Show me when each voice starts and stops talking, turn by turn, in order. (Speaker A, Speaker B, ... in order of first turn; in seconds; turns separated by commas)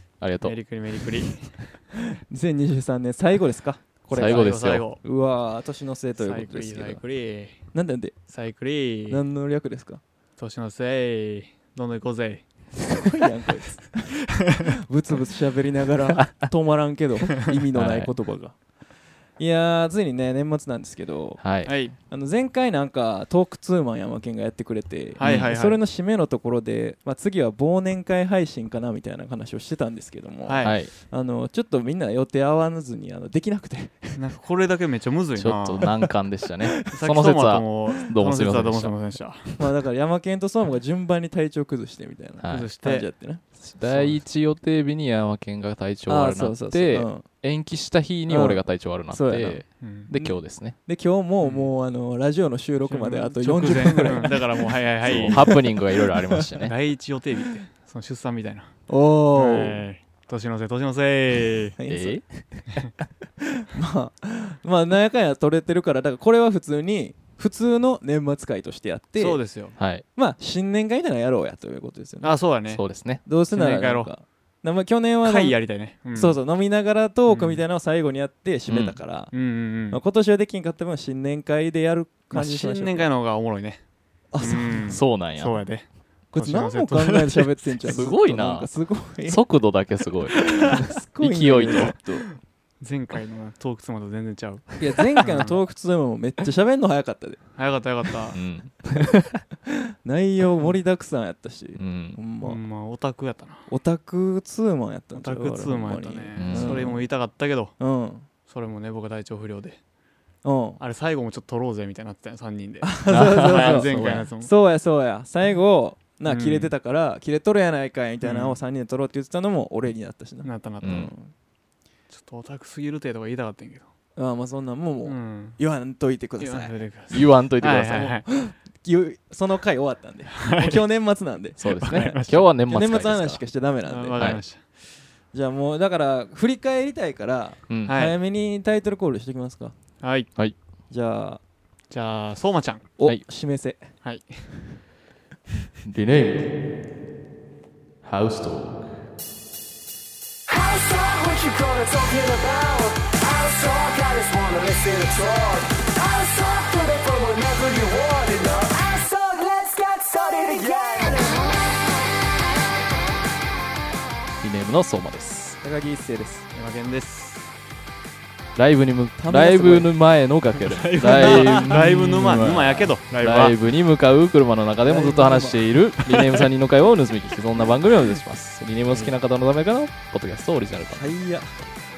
Speaker A: 0.2-0.6, Speaker B: 0.4-1.8, Speaker C: 2.3-7.0, Speaker A: 4.1-4.9, Speaker B: 4.1-5.0, Speaker B: 6.2-7.6, Speaker C: 7.7-8.2, Speaker B: 8.3-9.2, Speaker C: 9.1-10.0, Speaker B: 10.4-12.5, Speaker C: 12.9-18.6, Speaker A: 17.7-18.1, Speaker C: 19.4-34.2, Speaker A: 21.4-21.8, Speaker B: 21.7-21.9, Speaker B: 25.2-25.8, Speaker A: 25.2-25.5, Speaker B: 30.4-30.8, Speaker A: 30.6-30.9, Speaker B: 34.1-35.9, Speaker A: 35.4-39.2, Speaker B: 36.9-39.7, Speaker C: 39.6-43.4, Speaker A: 42.4-42.7, Speaker B: 42.5-43.1, Speaker A: 43.6-50.8, Speaker B: 43.8-44.2, Speaker C: 46.1-47.2, Speaker C: 48.3-56.5, Speaker B: 49.8-50.1, Speaker B: 51.4-51.7, Speaker B: 52.9-55.6, Speaker A: 55.0-56.7, Speaker B: 56.6-58.8, Speaker C: 58.9-59.8, Speaker B: 59.3-61.8, Speaker C: 61.8-62.2, Speaker A: 61.9-62.9, Speaker C: 63.4-69.4, Speaker B: 69.2-69.8, Speaker A: 69.8-70.0, Speaker C: 70.2-72.4, Speaker B: 72.2-72.8, Speaker A: 72.7-73.2, Speaker C: 73.3-75.6, Speaker B: 73.5-74.1, Speaker B: 75.2-76.4, Speaker C: 76.1-79.3, Speaker B: 77.3-77.6, Speaker A: 78.7-79.0, Speaker B: 79.3-80.0, Speaker C: 79.9-83.1, Speaker B: 82.3-83.8, Speaker C: 84.3-84.9, Speaker B: 84.4-87.5, Speaker A: 84.9-85.6, Speaker C: 86.3-89.4, Speaker A: 87.8-88.7, Speaker A: 89.3-92.3, Speaker C: 90.3-92.0, Speaker B: 92.8-95.6, Speaker C: 94.8-97.4, Speaker B: 97.6-98.4, Speaker A: 98.3-99.3, Speaker C: 99.7-102.6, Speaker A: 101.8-102.2, Speaker B: 102.4-103.7, Speaker C: 103.7-107.0, Speaker B: 105.2-107.7, Speaker A: 106.4-106.9, Speaker C: 107.8-108.3, Speaker B: 108.5-109.8, Speaker C: 110.4-110.8, Speaker B: 110.8-114.5, Speaker C: 112.8-121.3, Speaker A: 113.1-114.3, Speaker B: 116.3-116.7, Speaker B: 118.2-118.6, Speaker B: 120.4-121.1, Speaker A: 120.8-121.1, Speaker B: 122.1-123.9, Speaker C: 124.2-126.8, Speaker B: 125.0-125.6, Speaker B: 126.4-128.3, Speaker A: 127.1-128.1, Speaker C: 128.3-134.2, Speaker B: 130.4-130.8, Speaker A: 131.6-133.4, Speaker B: 131.8-132.5, Speaker B: 133.9-134.6, Speaker A: 134.2-134.4, Speaker C: 135.3-139.7, Speaker A: 137.7-137.9, Speaker B: 137.9-138.2, Speaker B: 140.0-140.3, Speaker C: 140.9-141.4, Speaker B: 141.9-142.9, Speaker C: 143.0-143.8, Speaker B: 144.0-144.4, Speaker A: 145.8-146.6, Speaker A: 148.0-149.0, Speaker D: 150.5-161.5, Speaker A: 164.4-165.6, Speaker C: 165.6-166.4, Speaker B: 166.5-167.5, Speaker A: 168.6-181.1, Speaker C: 169.2-169.9, Speaker B: 170.6-173.6, Speaker C: 171.1-171.9, Speaker C: 174.8-175.8, Speaker B: 176.1-176.4, Speaker C: 180.9-181.7